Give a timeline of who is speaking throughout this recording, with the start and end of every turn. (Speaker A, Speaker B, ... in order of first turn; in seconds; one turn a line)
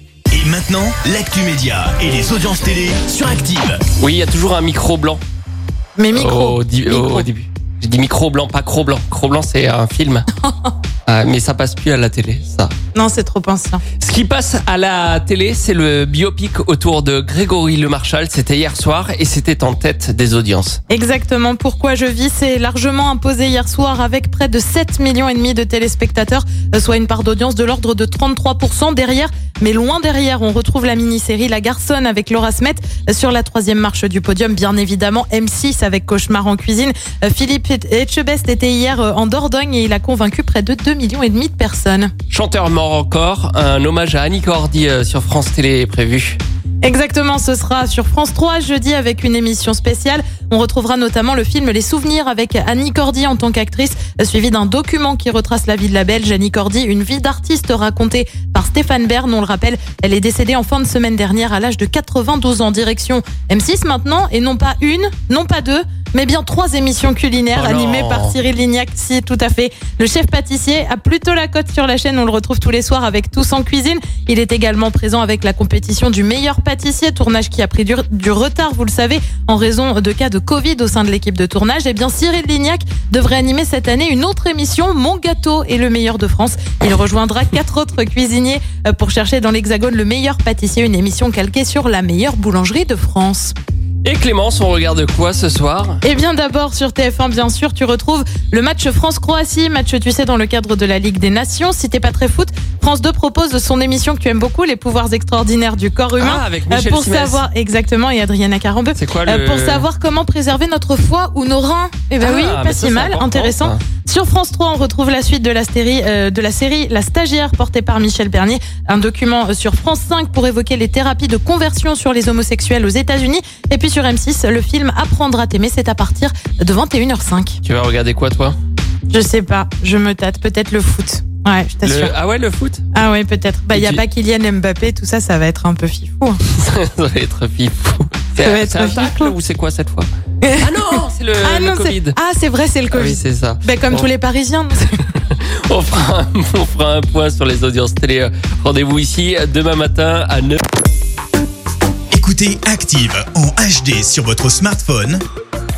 Speaker A: 0.3-3.9
Speaker B: 4.0-5.2
Speaker C: 6.0-7.3
Speaker B: 6.1-10.3
Speaker C: 10.4-10.7
Speaker B: 11.1-12.7
Speaker C: 12.9-13.8
Speaker B: 14.0-20.8
Speaker C: 20.9-42.1
Speaker B: 42.3-46.4
Speaker C: 46.8-93.5
Speaker B: 67.5-68.4
Speaker B: 94.0-96.0
Speaker C: 96.0-127.6
Speaker B: 106.2-107.4
Speaker B: 109.0-109.9
Speaker B: 112.2-113.8
Speaker B: 127.6-128.6
Speaker C: 129.1-132.1
Speaker B: 131.8-132.8
Speaker C: 132.9-136.4
Speaker B: 133.7-134.0
Speaker B: 136.4-142.2
Speaker C: 138.4-139.3
Speaker C: 140.4-145.0
Speaker B: 142.9-144.1
Speaker B: 145.1-150.6
Speaker A: 152.1-155.2